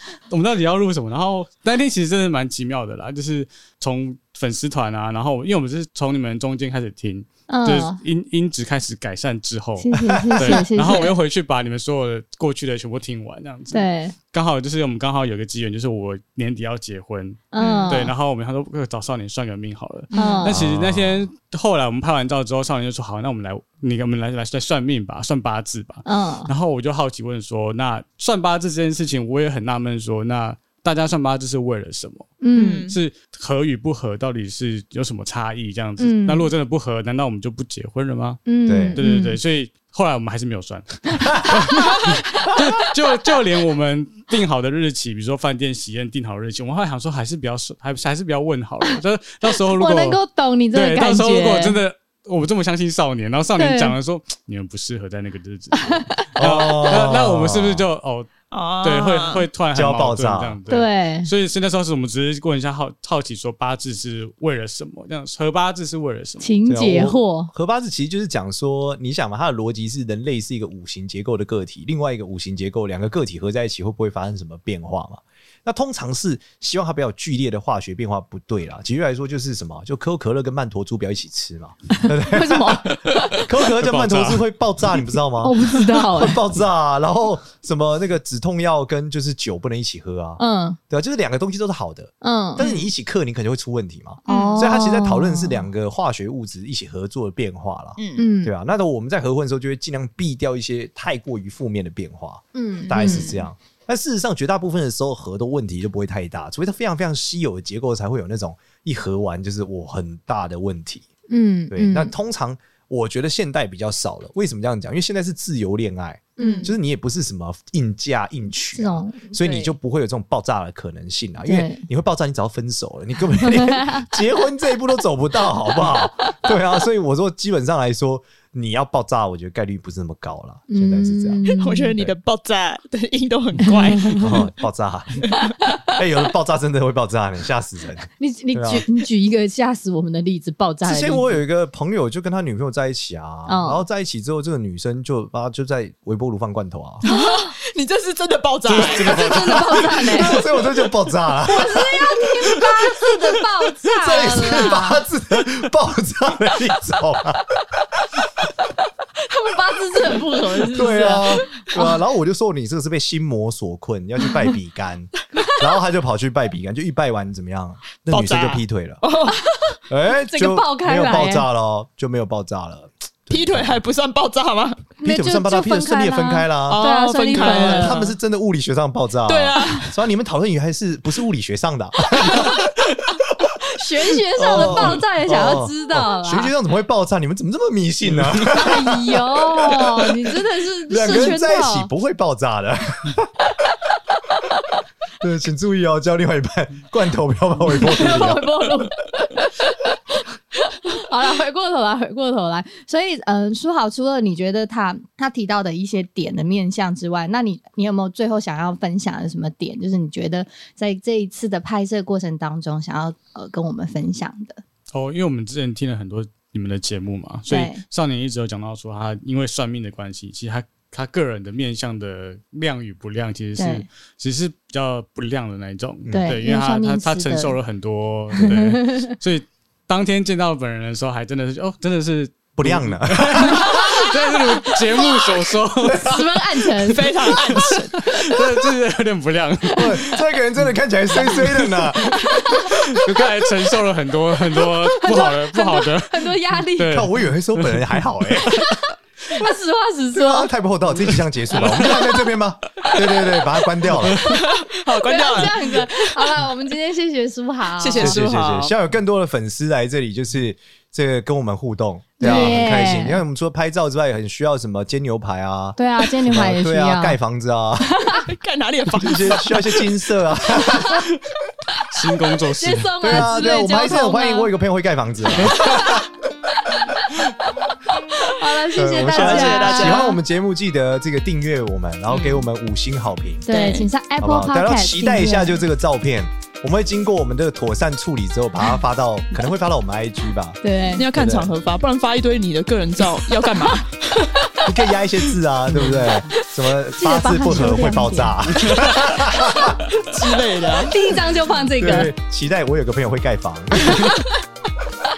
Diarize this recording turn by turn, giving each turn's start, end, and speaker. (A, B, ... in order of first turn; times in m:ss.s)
0:00.3-0:38.4 A
0:07.5-0:08.0 B
0:09.8-0:11.2 B
0:10.1-0:10.6 C
0:13.7-0:14.1 B
0:17.5-0:18.1 B
0:17.6-0:18.0 D
0:20.1-0:20.6 B
0:20.1-0:20.5 D
0:20.5-0:21.3 C
0:26.0-0:26.5 B
0:32.4-0:32.9 B
0:32.5-0:33.0 D
0:36.0-0:36.5 B
0:38.4-0:39.4 B
0:38.7-0:39.0 C
0:39.0-0:50.2 A
0:41.2-0:42.6 B
0:49.6-0:51.8 B
0:50.7-1:06.5 A
0:53.6-0:54.0 B
0:55.7-0:56.2 B
0:56.4-0:57.9 C
0:58.5-0:59.5 D
0:59.7-1:00.6 C
1:00.7-1:01.3 B
1:06.4-1:07.5 B
1:06.6-1:51.1 C
1:22.0-1:23.4 B
1:23.0-1:24.5 A
1:25.4-1:26.4 B
1:30.4-1:30.8 B
1:32.2-1:32.6 B
1:32.6-1:32.9 D
1:34.2-1:35.6 B
1:34.3-1:34.8 D
1:38.0-1:38.2 D
1:38.2-1:38.5 B
1:42.5-1:43.4 B
1:42.8-1:43.5 D
1:51.3-1:52.1 B
1:51.7-2:12.1 C
1:56.4-1:56.7 B
1:56.4-1:56.7 D
1:58.7-1:59.3 B
1:59.4-1:59.7 D
2:01.4-2:01.8 B
2:03.6-2:04.0 B
2:10.7-2:11.9 B
2:11.5-2:14.4 D
2:13.8-2:14.4 B
2:14.1-2:15.3 C
2:15.6-2:15.9 B
2:15.9-2:18.8 C
2:18.2-2:21.4 B
2:20.8-2:27.0 C
2:23.5-2:23.8 B
2:27.0-2:27.5 B
2:27.0-2:30.4 D
2:28.7-2:32.6 C
2:28.9-2:30.4 B
2:31.5-2:35.0 B
2:33.9-2:38.2 C
2:39.2-2:42.0 B
2:40.6-2:49.0 C
2:48.1-2:49.4 D
2:49.3-2:51.5 B
2:49.9-2:53.8 C
2:53.3-2:54.9 D
2:55.0-2:58.0 B
2:55.0-3:02.7 C
2:56.7-2:58.1 D
2:59.2-3:00.0 D
3:03.3-3:03.5 C
3:03.6-3:06.5 B
3:04.4-3:10.2 C
3:04.5-3:04.9 D
3:08.4-3:11.9 B
3:10.9-3:13.6 C
3:15.2-3:18.6 C
3:17.7-3:19.9 B
3:20.6-3:34.6 B
3:34.9-3:56.2 A
3:37.5-3:37.8 B
3:43.6-3:43.8 B
3:46.0-3:46.4 C
3:46.1-3:47.6 B
3:48.4-3:49.1 B
3:52.6-3:54.1 C
3:53.5-3:53.8 B
3:54.8-3:57.2 B
3:55.8-3:56.9 C
3:56.8-3:58.0 D
3:57.4-3:58.6 C
3:57.6-4:00.2 A
3:59.7-4:02.7 C
4:01.3-4:08.0 A
4:04.6-4:07.0 B
4:06.9-4:08.7 C
4:08.4-4:10.5 B
4:10.1-4:14.2 C
4:11.7-4:12.2 B
4:14.0-4:14.3 A
4:14.2-4:16.4 D
4:15.0-4:18.2 B
4:17.8-4:18.7 D
4:18.0-4:28.2 C
4:22.2-4:23.2 B
4:22.2-4:22.8 D
4:25.8-4:27.2 B
4:28.2-4:29.9 D
4:29.0-4:31.1 C
4:31.9-4:33.3 A
4:32.5-4:34.5 B
4:33.0-4:36.1 C
4:35.4-4:35.8 A
4:38.3-4:40.2 B
4:38.7-4:43.5 C
4:39.1-4:40.1 D
4:42.1-4:42.4 D
4:43.4-4:45.6 B
4:43.5-4:43.9 D
4:44.2-4:50.6 C
4:50.6-4:51.0 B
4:50.9-4:54.6 D
4:51.1-4:51.5 C
4:54.6-4:59.9 C
4:56.9-4:59.8 B
4:59.9-5:01.0 D
5:00.8-5:02.1 B
5:01.8-5:04.2 C